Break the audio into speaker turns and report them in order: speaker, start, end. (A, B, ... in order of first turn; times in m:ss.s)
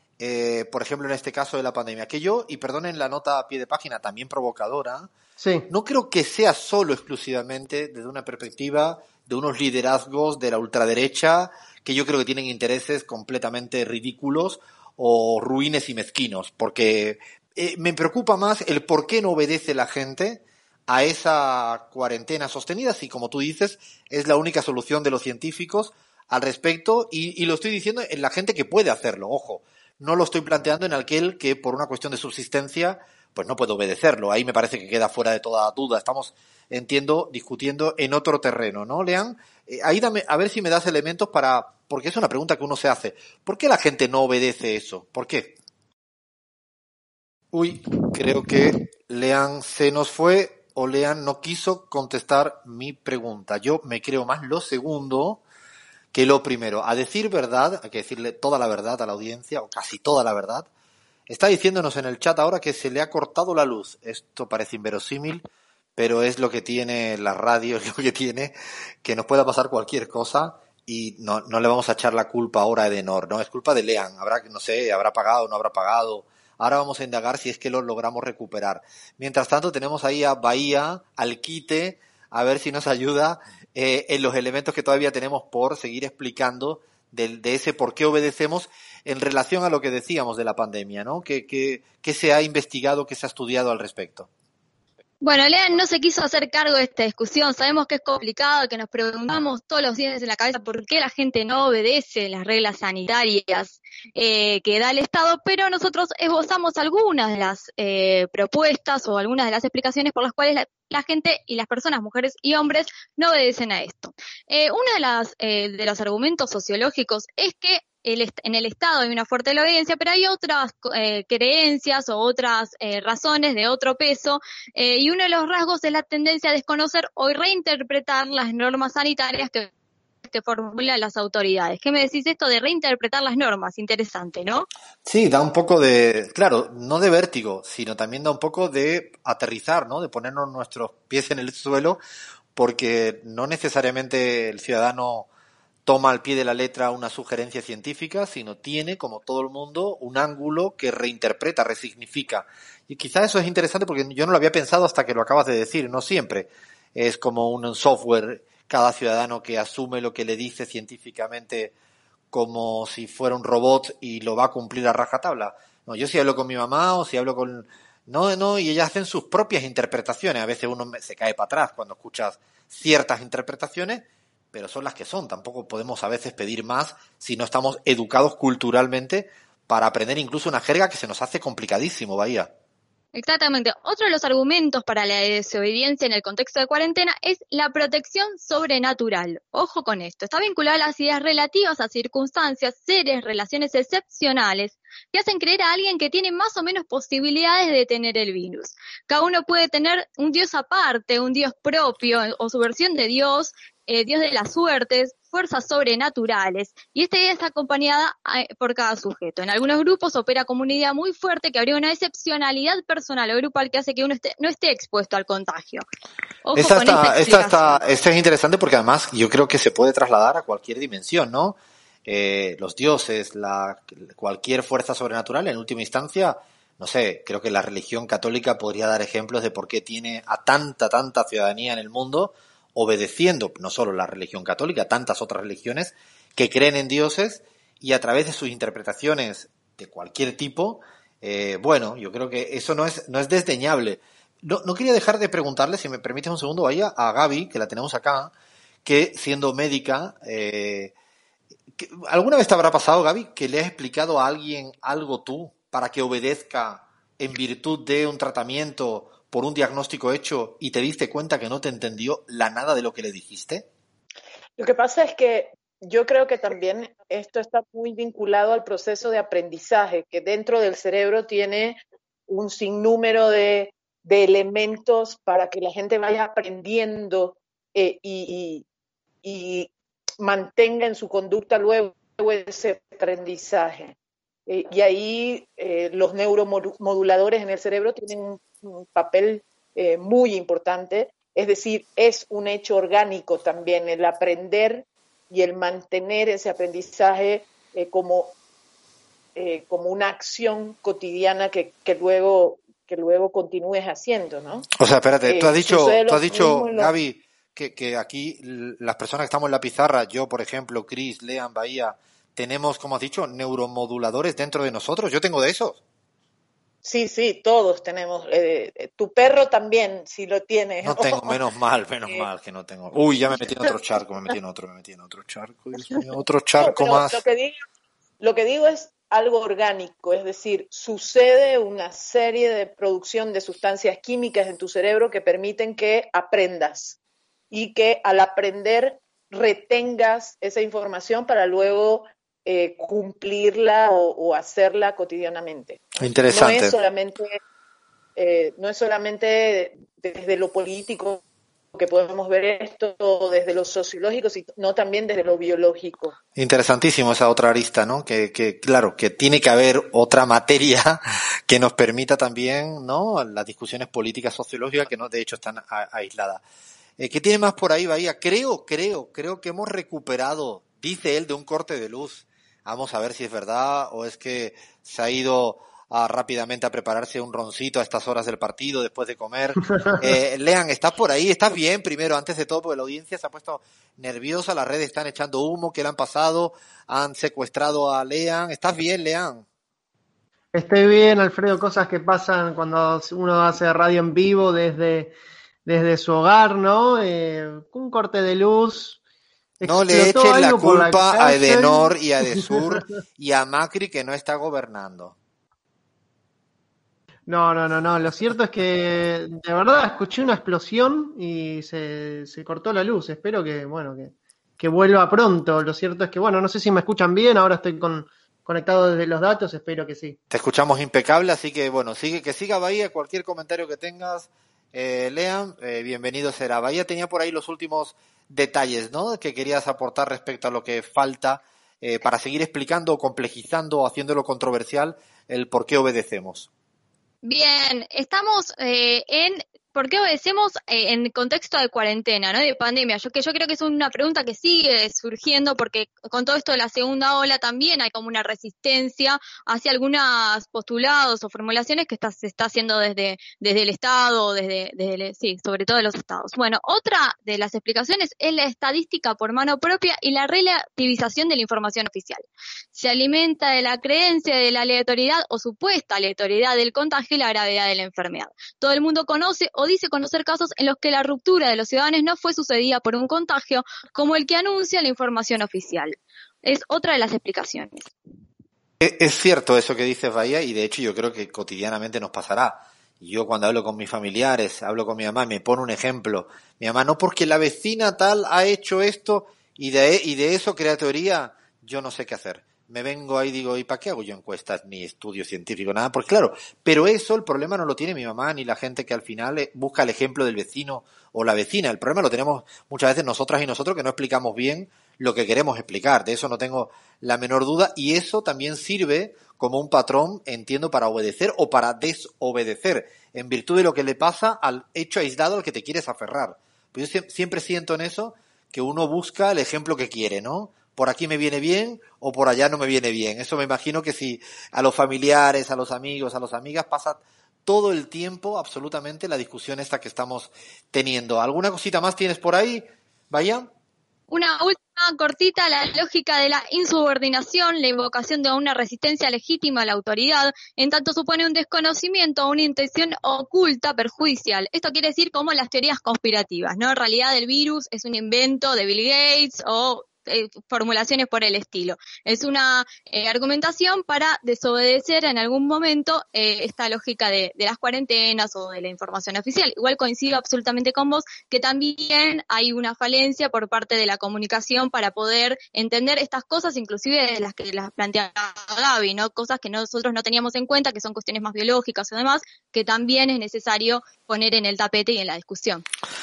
0:00.2-0:05.1 A
0:05.4-0:05.7 B
0:05.7-0:45.6 A
0:47.5-0:55.4 A
0:56.1-1:00.7 A
1:01.3-1:05.5 A
1:06.0-1:34.3 A
1:35.2-2:09.7 C
2:10.2-2:14.7 C
2:15.0-2:22.0 A
2:22.6-2:25.3 A
2:25.8-2:41.7 A
2:42.3-3:02.5 A
3:03.2-3:35.8 C
3:36.4-3:37.8 C
3:36.6-4:08.3 A
4:08.8-4:10.9 A
4:11.8-4:23.7 A
4:24.6-4:38.6 D
4:39.2-4:44.0 D
4:44.5-4:58.4 D
4:59.4-5:04.7 D
5:04.7-5:15.8 A
5:05.3-5:06.9 D
5:16.8-5:21.4 D
5:20.8-5:27.2 A
5:26.6-5:27.6 D
5:28.2-5:37.0 D
5:37.5-5:47.4 D
5:46.0-5:46.8 A
5:48.2-5:51.2 D
5:51.7-5:56.2 D
5:56.4-6:06.4 A
6:07.0-6:29.4 A
6:30.5-6:35.2 B
6:35.7-6:39.0 B
6:39.6-6:41.9 B
6:39.6-6:45.2 A
6:42.6-6:42.8 B
6:47.3-7:00.2 B
7:00.3-7:16.5 A
7:17.2-7:57.9 C
7:58.8-8:53.5 A
8:54.1-9:35.6 C